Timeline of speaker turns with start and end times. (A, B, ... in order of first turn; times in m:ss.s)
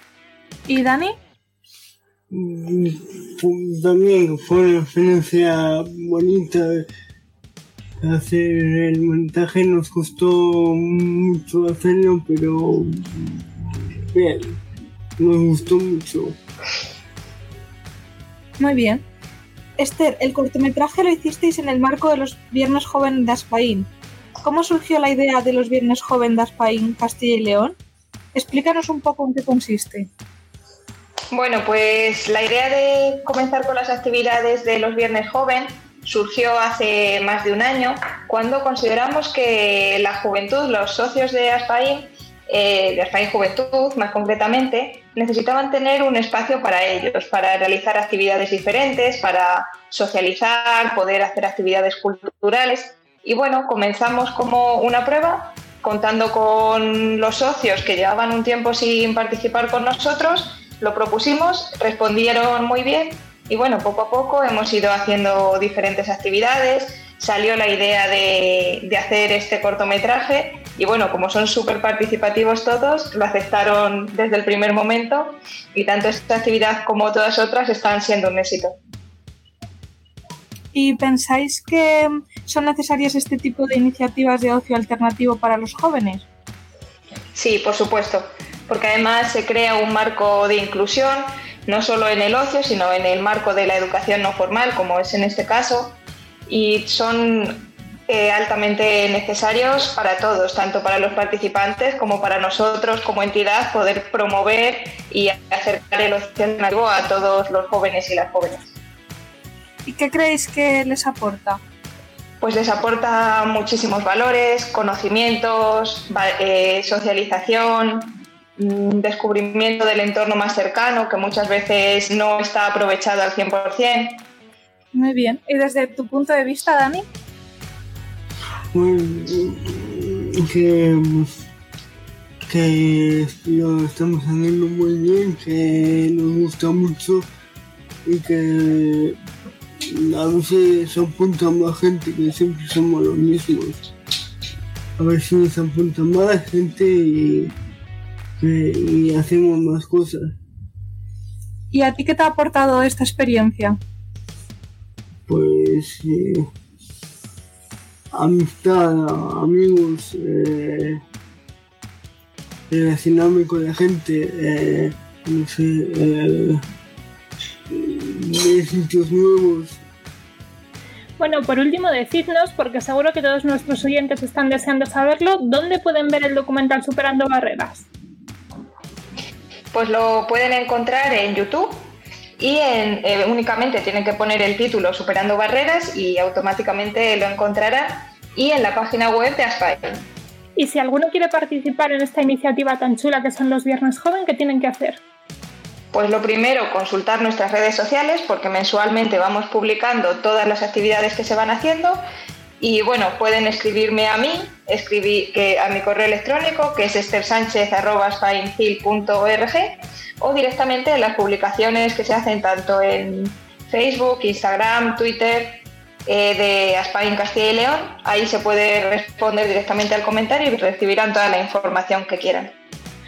0:00.7-0:01.1 A
0:02.3-0:06.9 B
0:08.0-0:14.6 B
0:15.2-0:16.4 B
0:18.6-0:19.0 A
0:19.8-0:23.9 A
0:24.4-0:27.7 A
0:28.4-0:30.1 A
0:31.3-1:18.7 C
1:20.8-1:26.2 A
1:27.4-1:36.0 C
1:36.5-1:48.7 C
1:49.9-1:51.6 A
1:52.4-2:04.2 C
2:05.0-2:07.0 A
2:08.7-2:11.3 B
2:12.5-2:17.3 B
2:18.0-2:19.2 B
2:19.9-2:23.9 B
2:25.0-2:27.5 B
2:28.4-2:30.4 B
2:31.7-2:33.7 A
2:35.3-2:36.5 B
2:38.1-2:41.0 B
2:42.7-2:46.6 B
2:47.7-2:49.8 B
2:51.2-2:57.9 D
2:59.7-3:10.0 C
3:10.6-3:15.0 D
3:15.9-3:22.0 C
3:22.6-3:42.5 C